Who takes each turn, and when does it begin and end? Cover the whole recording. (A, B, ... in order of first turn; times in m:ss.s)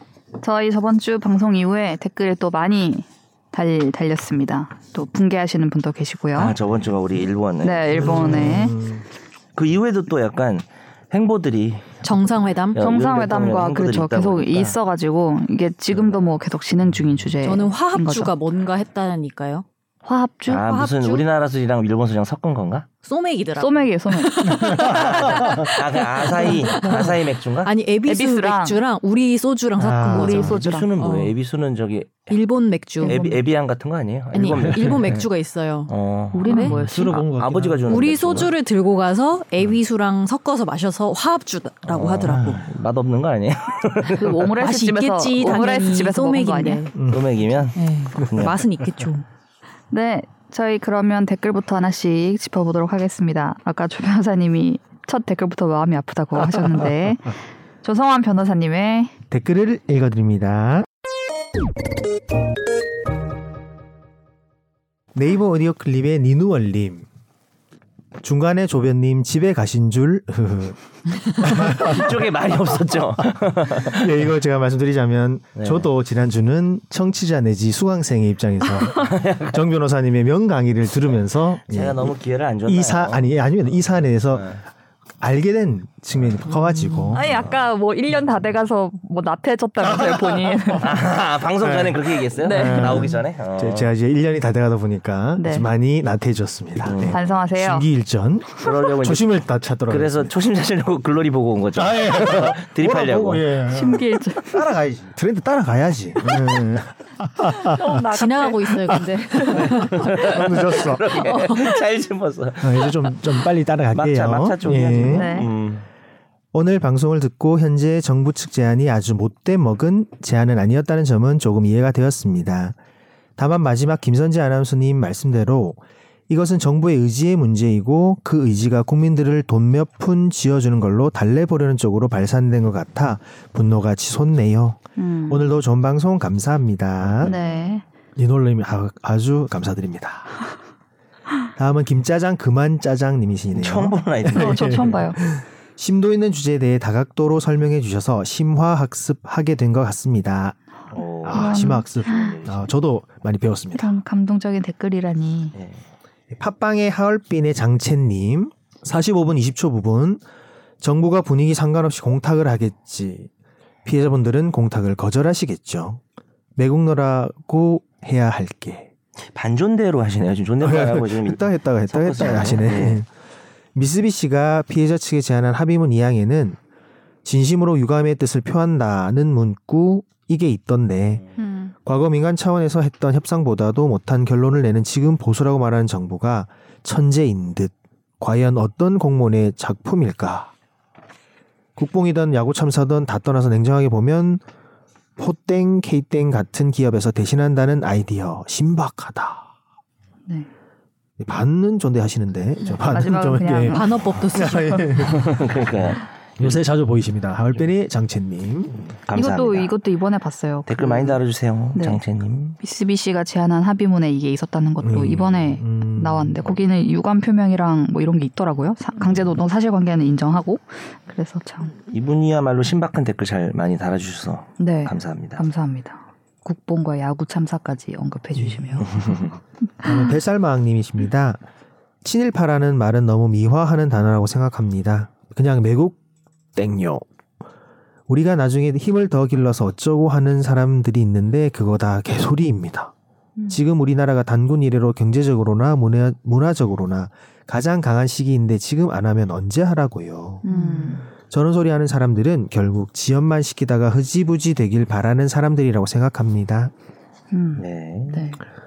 0:00.4-0:06.5 A
0:06.3-0:08.7 B
0:07.6-0:08.8 A
0:07.9-0:09.0 C
0:09.5-0:12.0 B
0:12.0-0:12.8 D
0:12.7-0:14.8 B
0:12.8-0:18.3 A
0:15.9-0:16.3 B
0:17.4-0:19.6 D
0:20.0-0:20.7 A
0:20.5-0:22.9 B
0:20.6-0:21.2 D
0:23.0-0:27.1 D
0:23.6-0:24.6 A
0:24.5-0:25.6 C
0:24.6-0:27.7 B
0:27.6-0:31.3 D
0:28.0-0:28.8 A
0:29.8-0:30.5 C
0:30.1-0:30.9 A
0:30.1-0:32.4 B
0:32.3-0:33.2 D
0:33.0-0:33.4 A
0:33.0-0:35.3 B
0:34.3-0:35.9 D
0:35.9-0:38.5 B
0:36.3-0:37.2 A
0:36.4-0:36.7 D
0:36.5-0:38.4 C
0:37.9-0:42.6 D
0:41.9-0:44.6 B
0:42.2-0:42.6 C
0:44.2-0:46.9 A
0:44.6-0:46.9 D
0:46.9-0:47.3 C
0:47.1-0:48.6 B
0:47.7-0:49.2 D
0:48.2-0:48.5 C
0:49.9-0:59.1 A
0:59.3-1:00.9 C
1:05.1-1:07.0 C
1:08.2-1:10.8 C
1:11.4-1:12.2 C
1:11.4-1:14.2 B
1:13.8-1:22.1 C
1:15.6-1:15.9 B
1:18.9-1:19.6 B
1:21.7-1:23.3 B
1:22.6-1:24.6 C
1:24.3-1:24.6 B
1:25.2-1:27.5 C
1:26.5-1:27.2 D
1:27.1-1:31.0 A
1:27.2-1:27.5 B
1:29.8-1:30.8 C
1:30.8-1:33.9 B
1:31.6-1:40.3 C
1:32.4-1:33.1 A
1:35.4-1:35.7 A
1:36.8-1:37.2 B
1:37.0-1:37.8 A
1:38.6-1:39.3 B
1:39.9-1:43.6 B
1:41.7-1:48.0 C
1:43.7-1:44.6 A
1:47.6-1:50.0 A
1:48.1-1:50.1 D
1:49.9-1:53.3 B
1:49.9-1:51.1 C
1:51.2-1:51.8 D
1:52.6-1:55.5 C
1:53.9-1:55.8 B
1:54.8-1:55.5 A
1:56.5-2:02.7 C
2:03.4-2:17.4 C
2:15.0-2:15.4 A
2:17.2-2:17.8 A
2:18.2-2:20.4 C
2:21.6-2:33.9 C
2:23.5-2:25.0 B
2:24.3-2:25.2 A
2:30.9-2:32.7 B
2:31.3-2:32.3 A
2:33.7-2:35.5 A
2:35.5-2:35.8 B
2:36.3-2:40.2 C
2:40.8-2:43.3 C
2:43.8-2:46.0 C
2:46.6-2:48.9 C
2:49.3-2:53.0 B
2:50.6-2:53.1 C
2:53.7-2:56.6 C
2:57.2-3:01.2 C
3:01.4-3:01.7 A
3:01.8-3:10.5 C
3:11.8-3:14.4 C
3:15.2-3:19.4 C
3:21.2-3:28.8 C
3:22.6-3:24.5 A
3:23.6-3:25.0 D
3:25.0-3:26.6 B
3:28.9-3:29.7 B
3:29.1-3:31.2 A
3:30.7-3:32.6 B
3:31.7-3:32.0 A
3:32.6-3:41.7 A
3:34.8-3:36.6 C
3:41.8-3:45.4 B
3:44.6-3:49.3 A
3:48.4-3:49.2 C
3:48.8-3:49.3 B
3:49.8-3:51.4 C
3:52.0-3:56.0 C
3:56.5-3:57.0 C
3:58.1-4:02.9 C
4:03.5-4:10.4 C
4:10.4-4:11.0 A
4:10.5-4:11.0 D
4:11.3-4:16.7 C
4:17.3-4:18.4 A
4:17.6-4:18.2 B